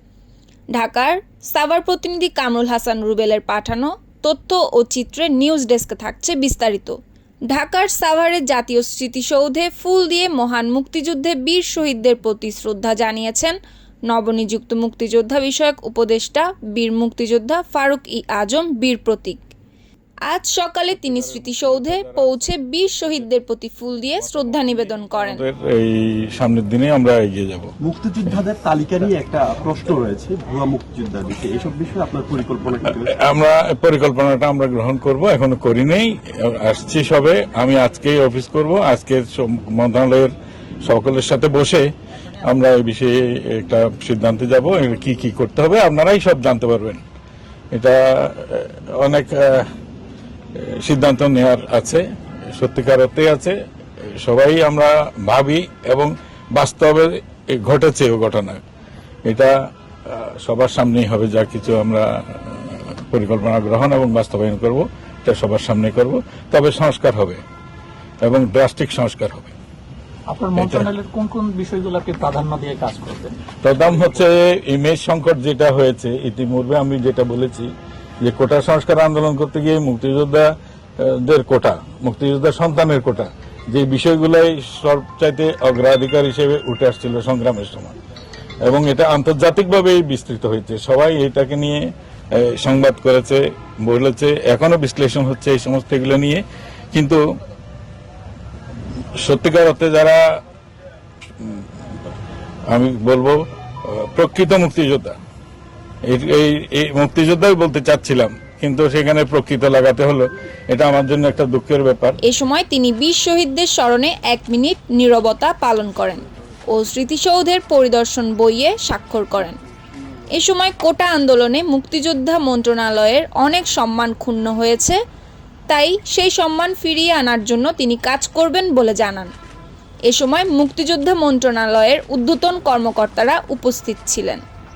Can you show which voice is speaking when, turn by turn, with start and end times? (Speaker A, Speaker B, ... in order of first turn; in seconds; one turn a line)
Speaker A: 0.7-7.0
Speaker A: 7.5-13.6
Speaker A: 14.1-19.4
Speaker A: 20.3-25.4
Speaker B: 20.9-23.2
Speaker B: 24.2-27.7
Speaker C: 27.8-33.2
Speaker B: 32.9-41.9
Speaker B: 42.4-47.0
Speaker B: 47.7-49.7
Speaker B: 50.5-53.5
Speaker B: 54.2-58.6
Speaker B: 59.2-59.5
Speaker B: 60.0-67.4
Speaker B: 68.2-69.5
Speaker D: 70.3-73.3
Speaker B: 70.5-70.9
Speaker B: 73.6-77.7
Speaker B: 78.2-87.9
Speaker B: 88.6-97.2
Speaker B: 99.2-100.2
Speaker B: 101.4-101.9
Speaker B: 102.7-105.1
Speaker B: 106.1-112.2
Speaker A: 112.2-119.6
Speaker A: 120.3-125.0
Speaker A: 125.7-129.3
Speaker A: 130.1-134.4